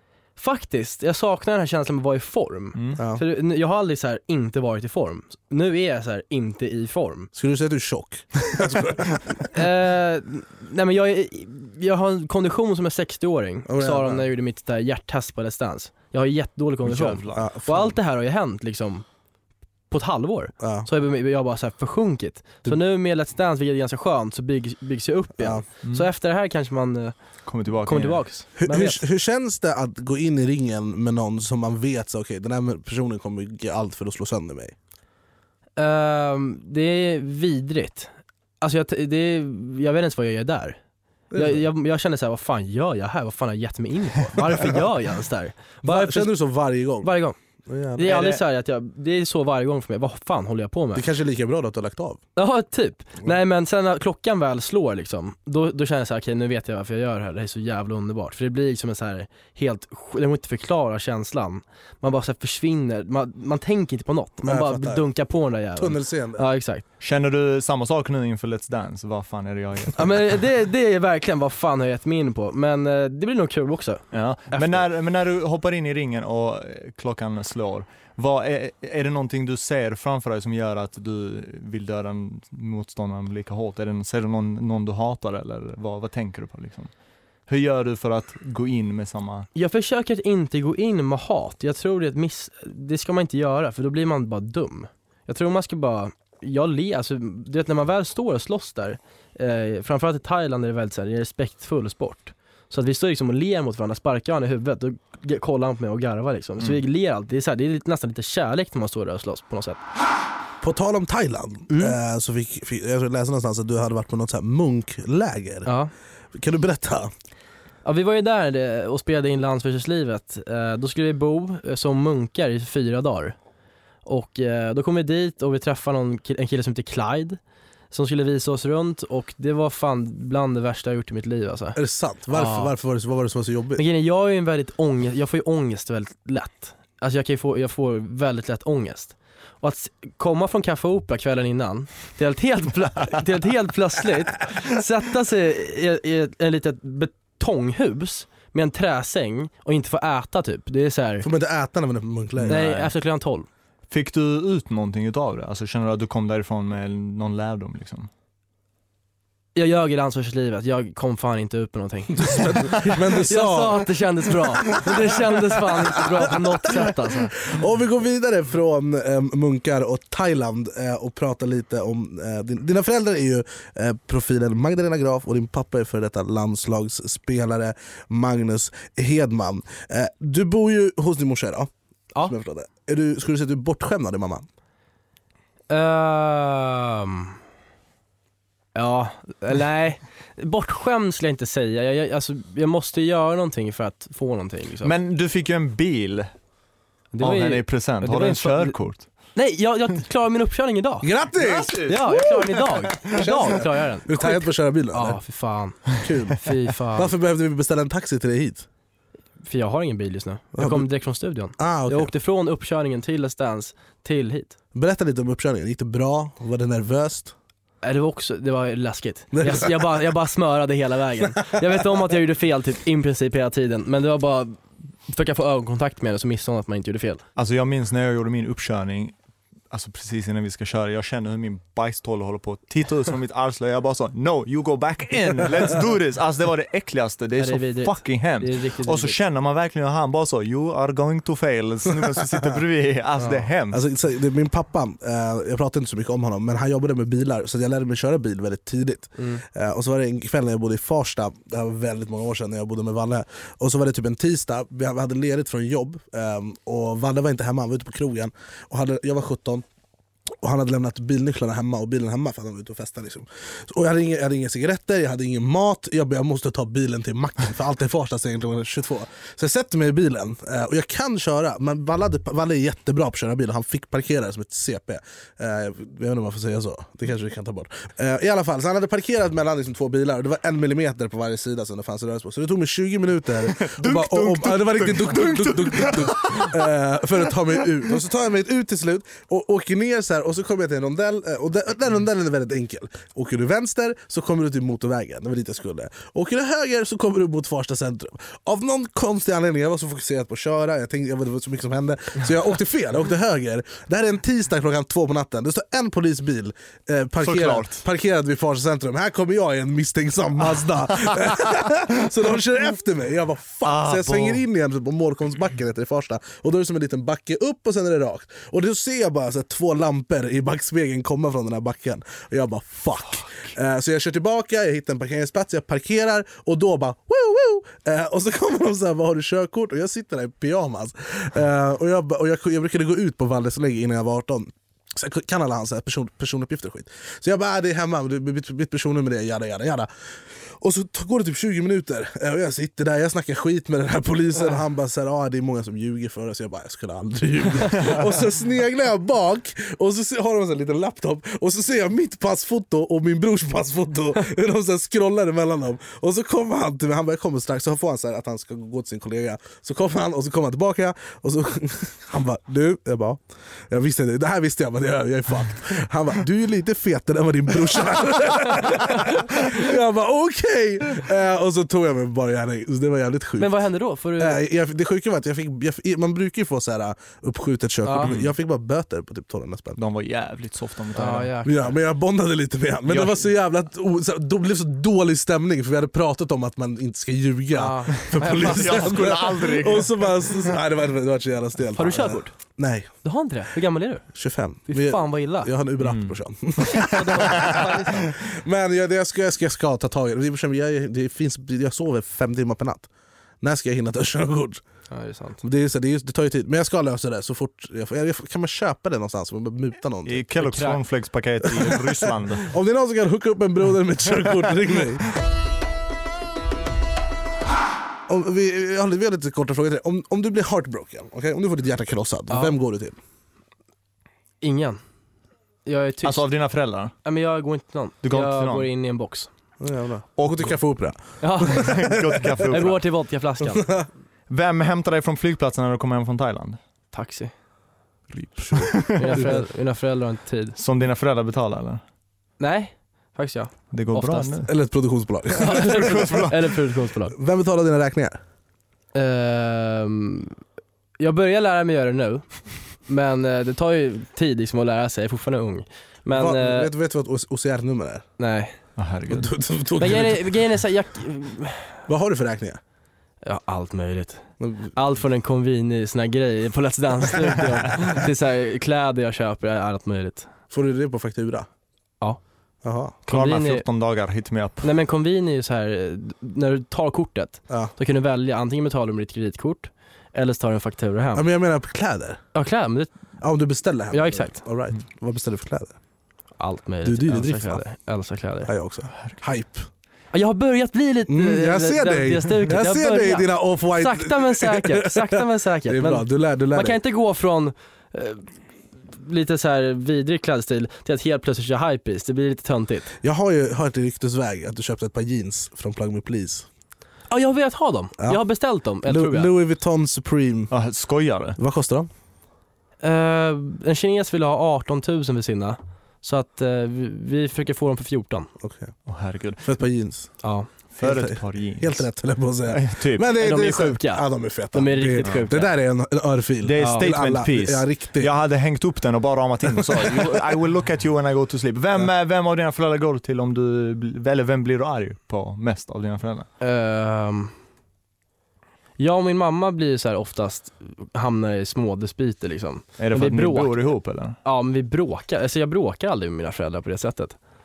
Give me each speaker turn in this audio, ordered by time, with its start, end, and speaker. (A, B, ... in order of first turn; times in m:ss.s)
0:00.4-0:07.3 A
0:03.0-0:03.2 B
0:07.4-0:09.4 B
0:09.5-0:19.0 A
0:13.7-0:14.3 B
0:16.8-0:17.4 C
0:17.3-0:18.0 B
0:19.9-0:27.1 A
0:20.6-0:20.9 B
0:25.4-0:25.6 B
0:27.5-0:28.2 C
0:27.8-0:29.0 A
0:28.6-0:34.8 B
0:35.8-0:40.8 A
0:41.3-0:41.6 B
0:41.3-0:46.3 A
0:44.5-0:44.8 B
0:45.8-0:47.1 B
0:47.0-0:47.4 A
0:47.7-0:48.3 B
0:48.0-0:51.0 A
0:48.1-0:48.4 C
0:50.9-0:52.2 B
0:52.4-1:06.8 A
1:04.4-1:05.0 B
1:05.8-1:06.4 B
1:07.0-1:10.1 C
1:10.0-1:14.8 A
1:14.1-1:26.9 C
1:27.5-1:29.5 C
1:29.6-1:49.8 A
1:50.6-1:55.7 B
1:51.7-1:52.0 A
1:55.6-1:55.9 A
1:56.3-1:57.1 B
1:57.8-2:03.4 A
2:04.1-2:07.4 A
2:07.9-2:11.8 A
2:11.8-2:13.8 B
2:12.3-2:12.7 A
2:13.8-2:31.3 A
2:31.2-2:32.7 B
2:32.4-2:32.9 C
2:32.5-2:33.5 A
2:33.9-2:38.1 C
2:39.6-2:47.3 A
2:42.1-2:43.9 B
2:45.9-2:46.8 B
2:47.4-3:01.7 B
3:02.2-3:04.5 B
3:05.7-3:07.4 A
3:08.8-3:14.9 A
3:14.8-3:16.3 C
3:17.1-3:18.8 A
3:17.2-3:19.1 C
3:19.4-3:21.1 A
3:21.0-3:22.5 B
3:21.4-3:23.1 C
3:21.8-3:27.1 A
3:23.0-3:25.2 B
3:26.0-3:28.7 B
3:29.4-3:34.6 A
3:30.5-3:30.9 B
3:31.6-3:32.1 B
3:34.8-3:37.3 B
3:37.8-3:47.2 A
3:39.3-3:40.0 B
3:47.4-3:49.2 C
3:49.7-4:03.8 C
3:57.4-3:59.2 A
4:03.7-4:19.6 B
4:09.2-4:09.4 A
4:20.4-5:39.9 B
4:43.6-4:46.7 C
5:07.2-5:07.8 C
5:10.9-5:11.5 C
5:13.6-5:14.4 C
5:40.6-6:13.6 B
6:13.4-6:14.4 A
6:14.2-6:19.8 B
6:17.8-6:18.1 A
6:18.0-6:18.3 C
6:19.8-6:21.3 C
6:21.0-6:21.7 A
6:21.4-6:32.9 B
6:22.9-6:23.2 C
6:27.6-6:29.2 A
6:28.3-6:30.4 C
6:31.8-6:32.3 A
6:33.0-6:34.0 A
6:34.1-6:42.9 B
6:34.7-6:35.5 A
6:35.8-6:36.2 C
6:36.6-6:38.1 A
6:43.4-6:44.6 B
6:44.9-6:45.4 A
6:45.4-6:50.2 B
6:50.1-6:52.5 C
6:50.4-6:50.8 A
6:51.5-6:55.1 B
6:58.1-7:03.0 B
7:04.4-7:04.8 A
7:05.7-7:06.3 A
7:06.0-7:06.9 C
7:07.0-7:09.3 A
7:08.0-7:08.7 C
7:09.6-7:12.2 B
7:10.2-7:10.6 C
7:11.2-7:11.8 A
7:11.5-7:12.8 C
7:12.5-7:13.7 A
7:13.5-7:13.9 B
7:14.3-7:16.6 C
7:16.9-7:17.3 A
7:18.1-7:19.3 C
7:18.4-7:19.4 B
7:19.0-7:20.6 A
7:20.6-7:21.8 C
7:22.4-7:24.3 A
7:23.7-7:24.5 C
7:24.5-7:26.3 B
7:25.4-7:27.2 A
7:25.4-7:26.4 C
7:27.1-7:28.2 B
7:28.9-7:30.4 A
7:31.0-7:36.7 A
7:36.1-7:38.1 B
7:38.2-7:38.6 A
7:38.8-7:39.3 C
7:39.1-7:40.3 B
7:39.8-7:41.8 A
7:41.9-7:42.6 B
7:43.2-7:50.3 A
7:44.4-7:44.7 B
7:50.5-7:51.5 B
7:52.6-7:53.0 B
7:53.1-7:53.6 A
7:53.1-7:54.7 C
7:54.6-8:01.3 A
8:01.2-8:02.2 B
8:02.3-8:02.9 A
8:03.2-8:05.8 B
8:03.9-8:04.4 A
8:06.4-8:08.5 A
8:06.8-8:07.6 B
8:08.5-8:09.7 B
8:10.1-8:18.2 A
8:11.1-8:16.8 B
8:18.9-8:22.9 A
8:23.0-8:26.5 B
8:27.1-8:29.3 A
8:28.8-8:30.5 B
8:30.5-8:31.4 C
8:31.4-8:31.9 B
8:32.8-8:38.3 A
8:38.4-8:38.7 B
8:38.9-8:39.5 C
8:39.4-8:40.1 B
8:40.8-8:41.9 C
8:40.8-8:48.1 B
8:42.5-8:43.1 C
8:43.2-8:45.5 A
8:46.4-8:56.3 C
8:46.6-8:46.9 A
8:49.6-8:49.9 B
8:56.4-8:57.3 A
8:58.8-9:03.7 A
9:02.8-9:04.2 C
9:04.2-9:07.2 A